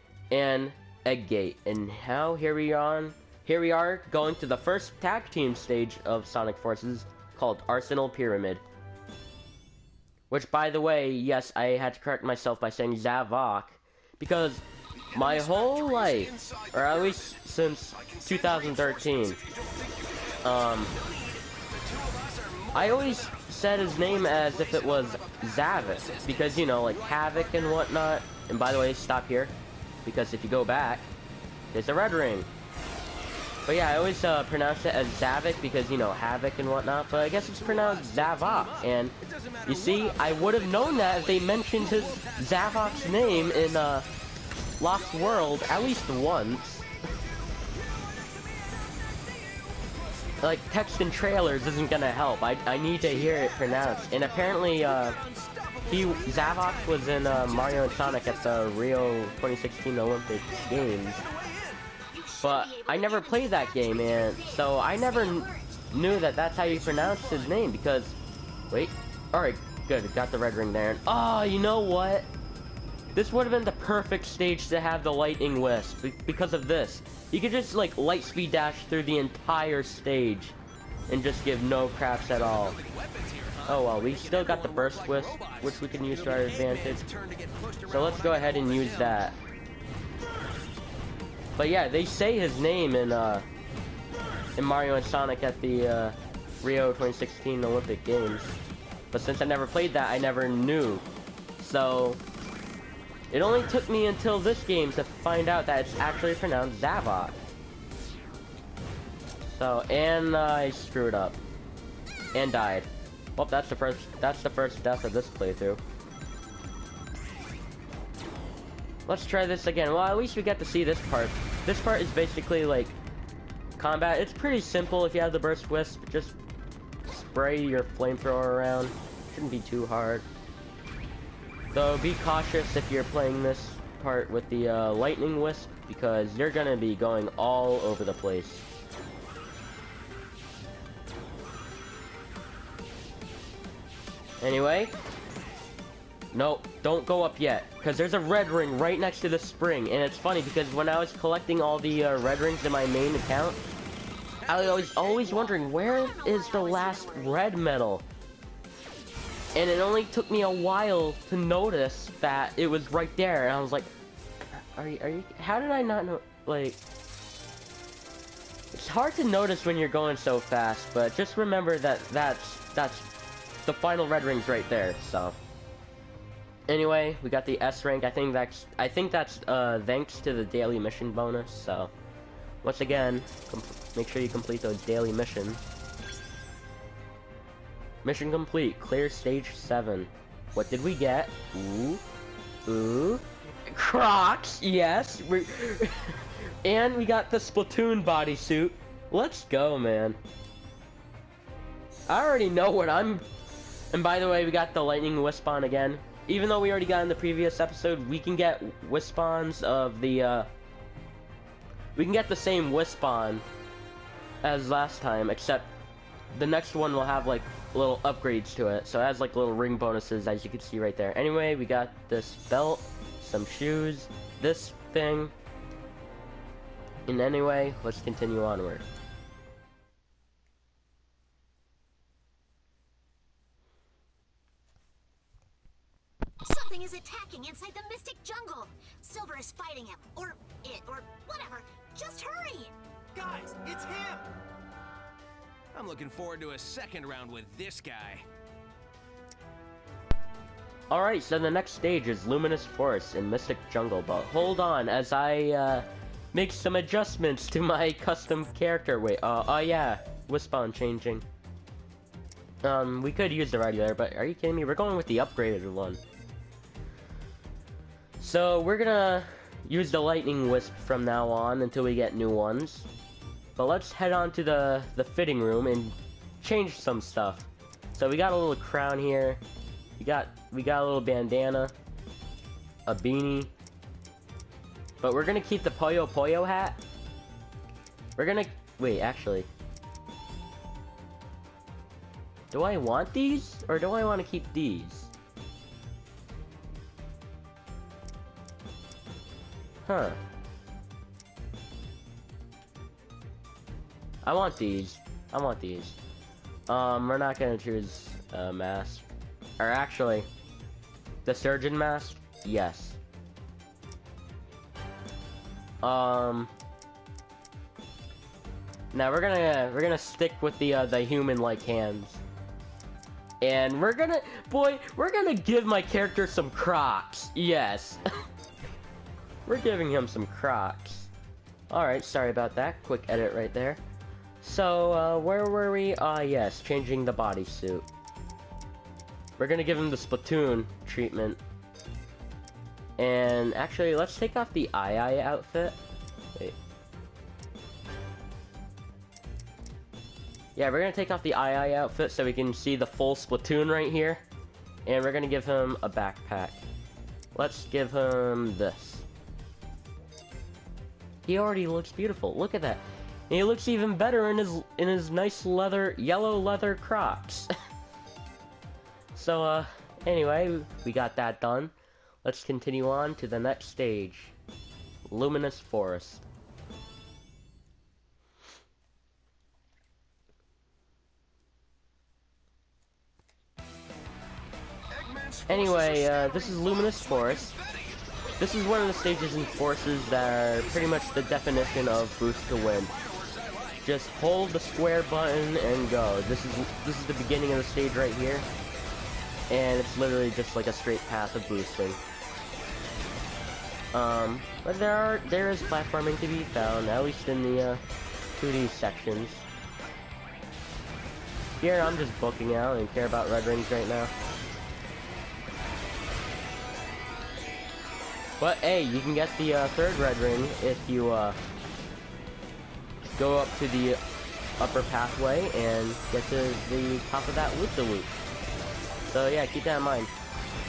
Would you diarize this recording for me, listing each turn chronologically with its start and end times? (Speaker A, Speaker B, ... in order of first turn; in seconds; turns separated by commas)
Speaker A: 0.3-8.6, Speaker A: 10.3-19.4, Speaker B: 15.1-17.4, Speaker B: 17.9-27.9, Speaker A: 20.4-20.9, Speaker A: 22.7-31.1, Speaker A: 31.7-32.5, Speaker A: 33.6-39.1, Speaker B: 37.1-43.8, Speaker A: 39.6-44.1, Speaker A: 44.8-46.9, Speaker B: 44.9-46.3, Speaker B: 47.0-50.4, Speaker A: 50.4-55.1, Speaker B: 52.9-58.7, Speaker A: 55.9-61.2, Speaker B: 60.5-61.9, Speaker C: 62.1-65.9, Speaker A: 62.4-68.2, Speaker B: 66.6-67.5, Speaker A: 68.7-72.3, Speaker A: 73.1-80.6, Speaker A: 81.1-82.8, Speaker B: 82.3-89.2, Speaker A: 83.7-87.0, Speaker A: 87.9-89.4, Speaker A: 91.6-93.5, Speaker A: 94.6-98.5, Speaker A: 99.1-101.1, Speaker A: 101.6-102.2, Speaker A: 103.3-107.4, Speaker A: 109.4-111.4, Speaker A: 112.3-115.8, Speaker A: 119.1-123.0, Speaker A: 123.8-126.4, Speaker A: 127.1-130.3, Speaker A: 131.7-138.6, Speaker A: 144.4-144.9, Speaker A: 146.3-153.6, Speaker B: 154.5-155.7, Speaker A: 154.5-158.1, Speaker C: 155.8-157.5, Speaker A: 159.5-163.9, Speaker A: 164.5-166.8, Speaker A: 168.7-173.1, Speaker A: 173.6-175.4, Speaker A: 176.7-181.9, Speaker A: 182.6-185.7, Speaker A: 188.0-192.0, Speaker A: 192.7-200.2, Speaker A: 202.1-203.2, Speaker A: 203.9-210.5, Speaker A: 211.9-213.4, Speaker A: 214.4-215.7, Speaker A: 216.3-225.3, Speaker A: 227.1-228.8, Speaker C: 236.4-242.7, Speaker B: 243.1-244.2, Speaker B: 245.7-248.2, Speaker A: 250.9-261.2, Speaker A: 262.6-266.0, Speaker A: 268.2-272.9, Speaker A: 273.6-279.4, Speaker A: 280.0-281.7, Speaker A: 282.9-283.5, Speaker A: 285.0-286.8, Speaker A: 288.2-289.5, Speaker A: 292.5-295.1, Speaker A: 299.9-300.2, Speaker A: 304.2-306.0, Speaker A: 306.7-309.1, Speaker A: 309.6-310.3, Speaker A: 311.2-313.0, Speaker A: 315.8-316.5, Speaker A: 318.9-322.2, Speaker A: 323.4-328.0, Speaker A: 329.4-331.1, Speaker A: 331.7-333.8, Speaker A: 334.4-337.9, Speaker A: 339.4-341.4, Speaker A: 343.0-345.8, Speaker A: 350.6-354.2, Speaker A: 354.9-356.6, Speaker A: 357.3-359.1, Speaker A: 361.2-367.5, Speaker A: 369.1-371.7, Speaker A: 372.2-374.3, Speaker A: 375.1-376.2, Speaker B: 384.9-388.0, Speaker A: 385.5-387.5, Speaker C: 386.4-386.7, Speaker C: 388.2-389.5, Speaker A: 388.4-392.9, Speaker B: 390.5-392.0, Speaker B: 392.9-393.9, Speaker A: 393.8-398.5, Speaker A: 399.5-402.0, Speaker A: 403.9-407.8, Speaker A: 408.4-409.5, Speaker A: 411.6-414.1, Speaker A: 418.4-421.4, Speaker A: 423.1-424.0, Speaker A: 424.6-428.1, Speaker A: 429.1-430.1